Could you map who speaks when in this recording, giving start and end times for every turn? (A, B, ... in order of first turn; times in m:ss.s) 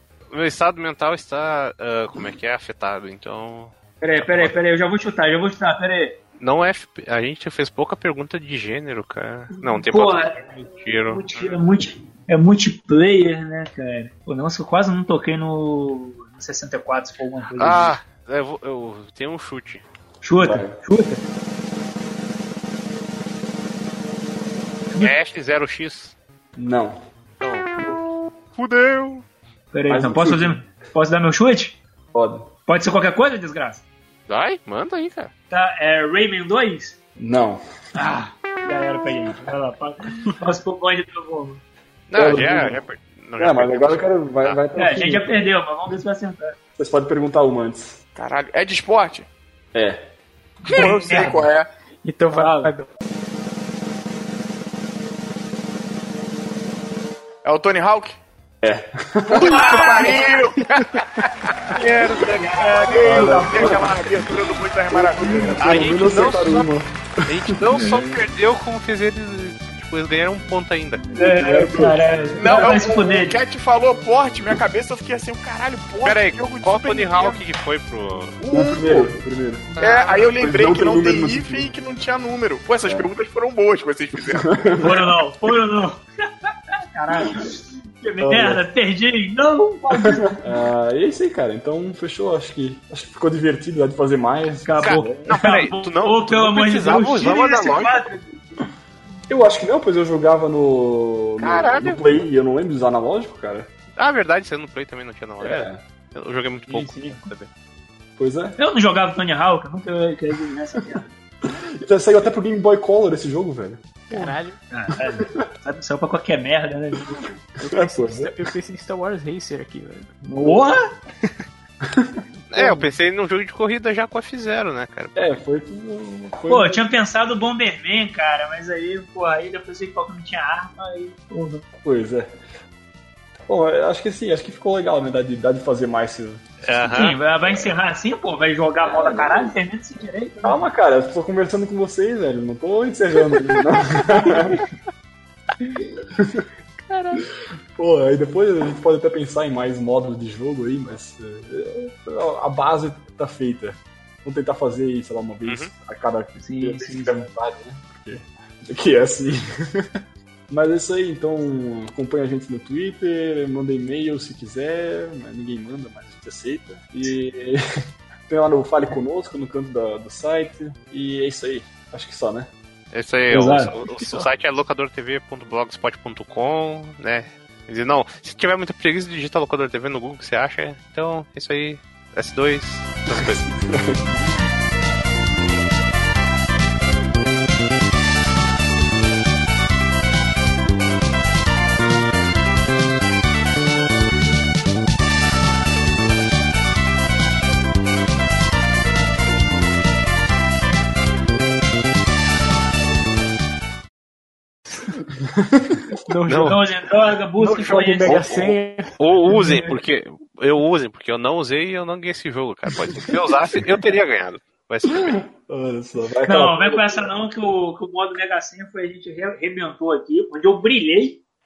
0:00.3-0:04.5 A
0:04.0-0:06.2 B
0:06.4-0:11.6 A
0:09.6-0:18.0 B
0:17.6-0:19.8 A
0:20.2-0:21.2 B
0:20.4-0:20.8 C
0:25.0-0:26.1 A
0:26.6-0:27.0 C
0:27.4-0:29.2 A
0:29.7-0:31.8 B
0:29.9-0:30.6 C
0:32.1-0:32.5 C
0:32.7-0:33.8 B
0:34.3-0:35.3 A
0:35.5-0:36.9 B
0:37.2-0:37.6 C
0:37.9-0:41.6 B
0:42.1-0:44.6 A
0:42.1-0:42.8 C
0:43.4-0:45.5 C
0:44.7-0:46.6 B
0:46.8-0:48.0 C
0:48.2-0:49.3 D
0:49.7-0:50.1 C
0:50.7-0:51.4 B
0:50.7-0:51.7 D
0:52.0-0:52.9 E
0:52.3-0:52.7 B
0:57.4-0:58.2 D
0:58.6-1:00.1 C
0:59.4-1:01.3 D
0:59.4-1:00.2 B
0:59.7-1:00.0 A
1:01.8-1:02.5 A
1:02.2-1:03.9 B
1:02.5-1:06.0 D
1:03.0-1:04.3 C
1:04.9-1:08.1 C
1:05.6-1:06.7 A
1:07.2-1:11.0 A
1:11.1-1:12.0 C
1:11.2-1:13.4 B
1:12.4-1:17.4 D
1:16.0-1:18.4 A
1:18.4-1:19.1 D
1:18.5-1:19.7 C
1:19.8-1:20.3 A
1:19.8-1:24.5 D
1:20.3-1:21.7 C
1:22.8-1:23.1 C
1:24.3-1:25.1 C
1:24.8-1:26.0 B
1:26.9-1:30.5 B
1:28.2-1:28.6 C
1:30.0-1:35.2 C
1:34.6-1:38.4 B
1:34.8-1:38.0 A
1:39.3-1:43.7 C
1:41.4-1:42.0 A
1:44.0-1:47.5 A
1:45.4-1:45.8 C
1:46.7-1:47.3 B
1:48.2-1:48.6 C
1:48.6-1:51.1 B
1:51.4-1:54.0 C
1:54.1-1:54.6 E
1:54.1-1:57.3 B
1:57.6-2:00.1 E
1:57.6-1:58.4 C
2:00.2-2:00.9 B
2:01.8-2:02.1 C
2:02.5-2:05.2 A
2:05.2-2:06.8 C
2:06.5-2:11.6 B
2:11.8-2:12.3 C
2:13.5-2:16.4 C
2:16.6-2:17.2 A
2:16.8-2:20.6 B
2:18.8-2:19.5 C
2:20.4-2:24.6 C
2:26.2-2:26.4 C
2:27.8-2:39.9 C
2:35.4-2:35.7 A
2:36.4-2:37.3 B
2:40.5-2:47.6 C
2:48.3-2:52.5 C
2:52.9-3:03.5 A
2:53.3-2:53.7 B
3:03.1-3:04.1 C
3:25.3-3:25.7 C
3:26.0-3:26.6 E
3:26.2-3:26.6 A
3:26.3-3:28.3 B
3:27.4-3:29.0 E
3:28.0-3:28.6 C
3:29.0-3:35.2 A
3:34.9-3:37.1 C
3:36.3-3:41.2 B